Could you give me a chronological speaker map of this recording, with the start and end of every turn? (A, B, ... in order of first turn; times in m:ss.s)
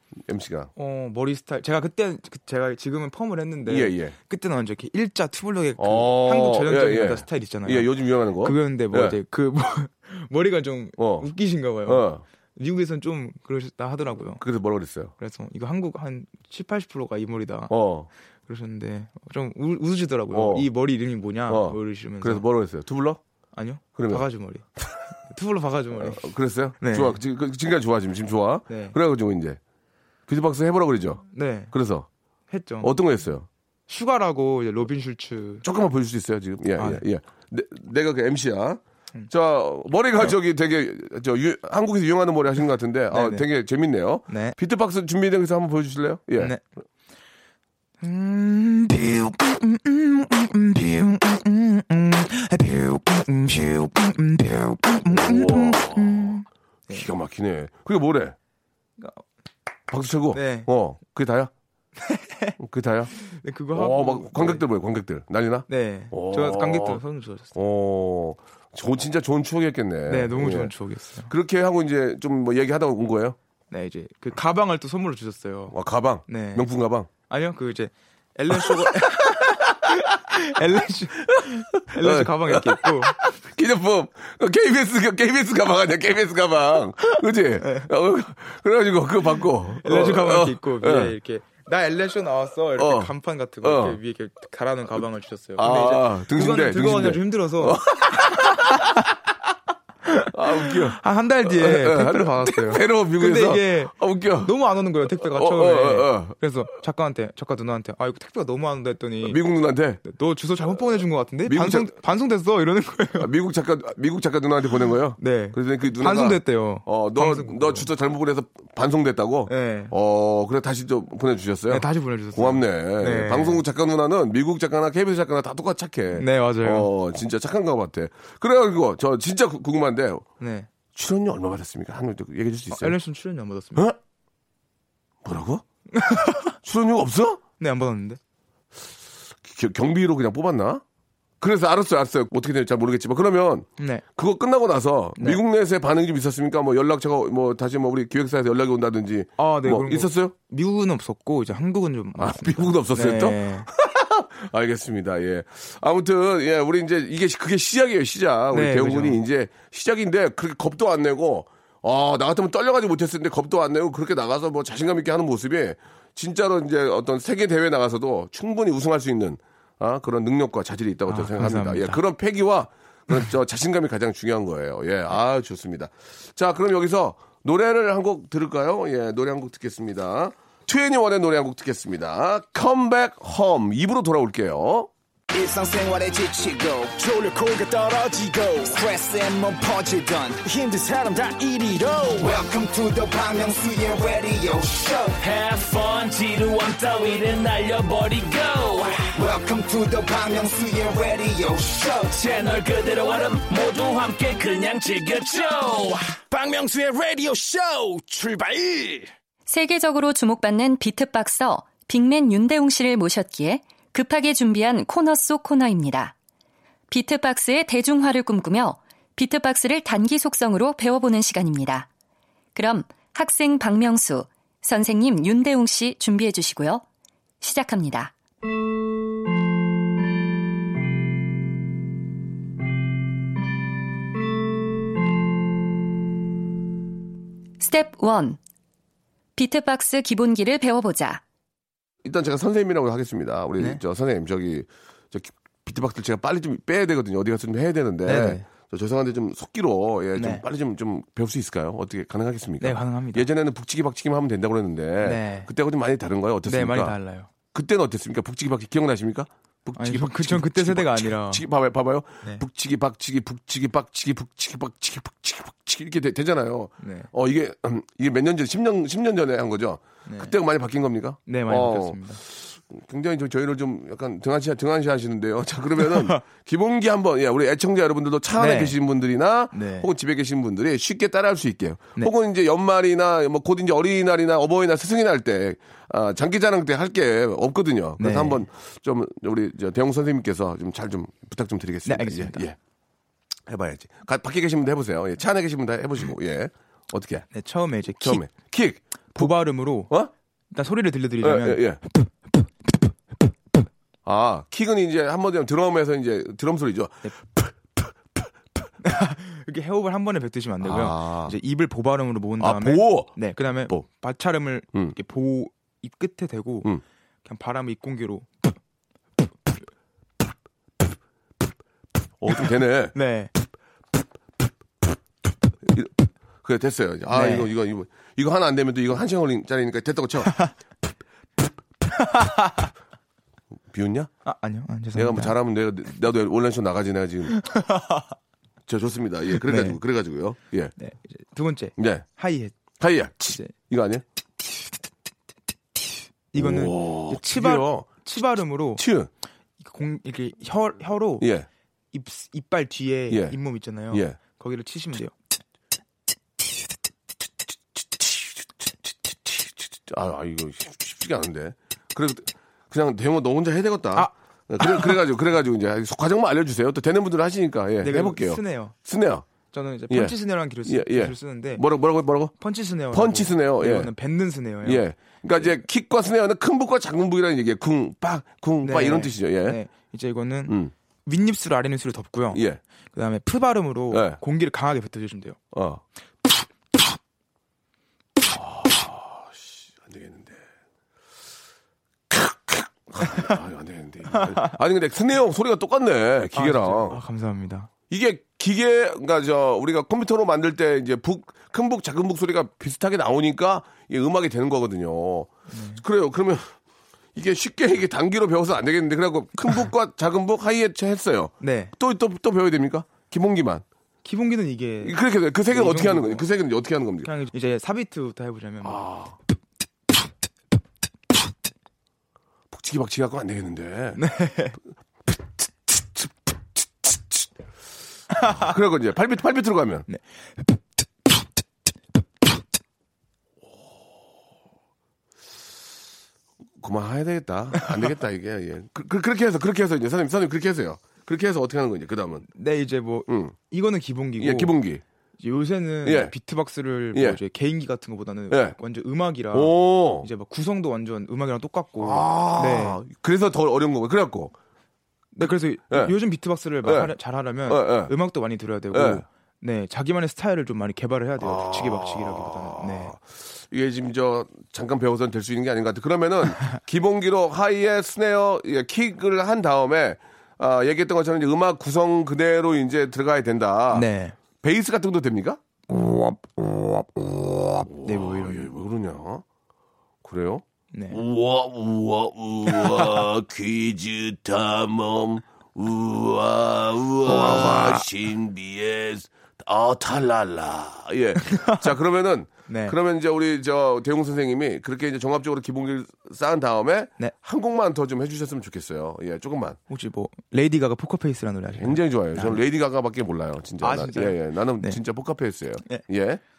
0:00.2-0:00.7 A
0:00.8-0:14.4 B
0:03.6-0:04.2 A
0:05.8-0:09.2 A
0:11.0-0:11.3 A
0:11.8-0:12.2 A
0:14.3-0:15.1 A
0:15.2-0:17.7 B
0:17.7-0:18.1 A
0:18.5-0:22.4 B
0:20.3-0:20.7 A
0:21.5-0:23.2 A
0:23.5-0:24.6 B
0:23.9-0:24.3 A
0:25.2-0:26.2 B
0:25.9-0:29.6 A
0:26.8-0:27.2 B
0:28.7-0:29.0 B
0:30.3-0:32.1 A
0:31.3-0:31.7 B
0:32.5-0:33.0 B
0:32.8-0:33.5 A
0:33.9-0:35.6 B
0:35.6-0:46.5 A
0:36.8-0:37.0 B
0:43.1-0:43.5 B
0:44.3-0:44.6 B
0:46.4-0:46.6 B
0:48.0-0:57.1 B
0:55.1-0:56.3 A
0:56.9-0:58.4 A
0:59.0-0:59.2 B
0:59.9-1:01.5 A
1:00.3-1:00.7 B
1:02.0-1:02.5 B
1:02.6-1:03.1 A
1:03.1-1:04.6 B
1:03.7-1:07.0 A
1:05.7-1:07.5 B
1:07.5-1:10.7 A
1:10.1-1:11.3 B
1:11.3-1:13.4 A
1:13.7-1:15.8 B
1:15.7-1:17.1 A
1:16.3-1:16.7 B
1:17.3-1:23.2 B
1:18.5-1:19.6 A
1:21.4-1:31.1 A
1:27.6-1:27.9 B
1:29.8-1:38.9 B
1:32.8-1:34.0 A
1:35.6-1:38.8 A
1:40.0-1:49.4 B
1:40.3-1:44.6 A
1:45.1-1:46.3 A
1:49.2-1:50.0 A
1:50.0-1:53.3 B
1:51.4-1:51.9 A
1:53.2-2:10.2 A
1:55.2-1:57.9 B
1:59.5-1:59.9 B
2:01.7-2:03.6 B
2:06.1-2:06.9 B
2:10.4-2:10.7 B
2:10.9-2:13.0 A
2:12.7-2:13.9 B
2:15.2-2:15.6 A
2:15.9-2:16.5 B
2:16.6-2:17.4 A
2:17.6-2:18.2 B
2:19.4-2:20.8 A
2:21.4-2:30.3 A
2:23.8-2:24.0 B
2:25.2-2:25.4 B
2:29.4-2:33.7 B
2:32.2-3:04.9 A
2:38.5-2:39.2 B
2:51.1-2:52.0 B
3:05.3-3:15.2 C
3:15.2-3:19.1 D
3:19.1-3:22.2 C
3:22.1-3:26.1 D
3:26.3-3:29.1 E
3:29.5-3:36.1 F
3:36.9-3:41.9 F
3:42.5-3:46.8 F
3:47.4-3:48.1 F
3:57.6-3:58.4 F
3:59.4-4:01.2 F
4:02.0-4:17.0 A
4:08.0-4:08.4 B
4:10.1-4:10.4 B
4:12.6-4:13.3 B
4:15.0-4:15.5 B
4:16.4-4:17.3 B
4:17.5-4:52.6 A
4:19.8-4:21.4 B
4:26.8-4:27.1 B
4:30.0-4:30.4 B
4:31.3-4:32.2 B
4:35.9-4:36.2 B
4:38.4-4:38.8 B
4:39.5-4:39.9 B
4:48.0-4:48.4 B
4:51.8-4:52.4 B
4:53.5-4:57.2 A
4:57.3-4:58.2 B
4:58.0-4:59.3 A
4:59.1-4:59.9 B
5:00.5-5:02.9 B
5:01.2-5:01.8 A
5:04.0-5:08.3 A
5:08.8-5:18.5 B
5:10.6-5:11.4 A
5:12.4-5:13.8 A
5:22.2-5:23.0 A
5:22.9-5:23.3 B
5:25.6-5:30.4 A
5:27.1-5:27.5 B
5:30.2-5:30.5 B
5:31.9-5:32.7 B
5:33.7-5:34.1 A
5:34.2-5:35.4 B
5:34.9-5:37.4 A
5:37.3-5:38.1 B
5:38.7-5:40.7 A
5:39.4-5:39.8 B
5:40.8-5:42.6 B
5:41.8-5:42.0 A
5:42.8-5:44.0 A
5:46.3-5:48.8 B
5:46.4-5:48.0 A
5:48.8-5:49.1 A
5:49.6-5:51.3 B
5:51.2-5:51.5 A
5:51.9-5:55.1 B
5:53.1-5:53.4 A
5:53.9-5:54.2 A
5:57.8-6:09.3 A
6:03.9-6:05.0 B
6:07.8-6:08.7 B
6:09.5-6:11.6 B
6:09.9-6:12.3 A
6:12.3-6:14.8 B
6:12.9-6:13.9 A
6:14.6-6:19.6 A
6:18.6-6:25.4 B
6:22.3-6:22.6 A
6:23.9-6:24.2 A
6:25.5-6:25.8 A
6:28.3-6:30.4 A
6:32.1-6:37.0 A
6:36.3-6:37.7 B
6:37.9-6:46.5 A
6:45.5-6:45.8 B
6:47.1-6:53.6 A
6:51.4-6:51.8 B
6:54.0-6:55.0 B
6:54.8-6:57.1 A
6:55.5-6:56.2 B
6:57.0-6:58.8 B
6:58.6-6:59.1 A
7:02.5-7:04.0 A
7:04.0-7:04.6 B
7:05.7-7:07.3 A
7:08.1-7:08.5 B
7:08.2-7:09.9 A
7:09.9-7:10.6 B
7:16.6-7:22.2 A
7:22.3-7:24.5 B
7:23.1-7:23.3 A
7:24.2-7:24.8 A
7:25.2-7:32.8 B
7:25.8-7:26.1 A
7:26.9-7:27.2 A
7:28.3-7:28.6 A
7:29.3-7:30.1 A
7:31.8-7:34.3 A
7:35.1-7:42.9 B
7:35.7-7:35.9 A
7:36.6-7:36.9 A
7:37.4-7:37.9 A
7:38.7-7:39.0 A
7:41.2-7:55.4 A
7:53.7-7:54.2 B
7:55.7-7:58.5 B
7:57.6-7:59.2 A
8:00.0-8:19.6 A
8:00.7-8:01.0 B
8:02.5-8:03.0 B
8:07.0-8:07.8 B
8:11.2-8:11.5 B
8:12.5-8:12.8 B
8:19.7-8:22.4 B
8:21.5-8:26.2 A
8:23.6-8:24.8 B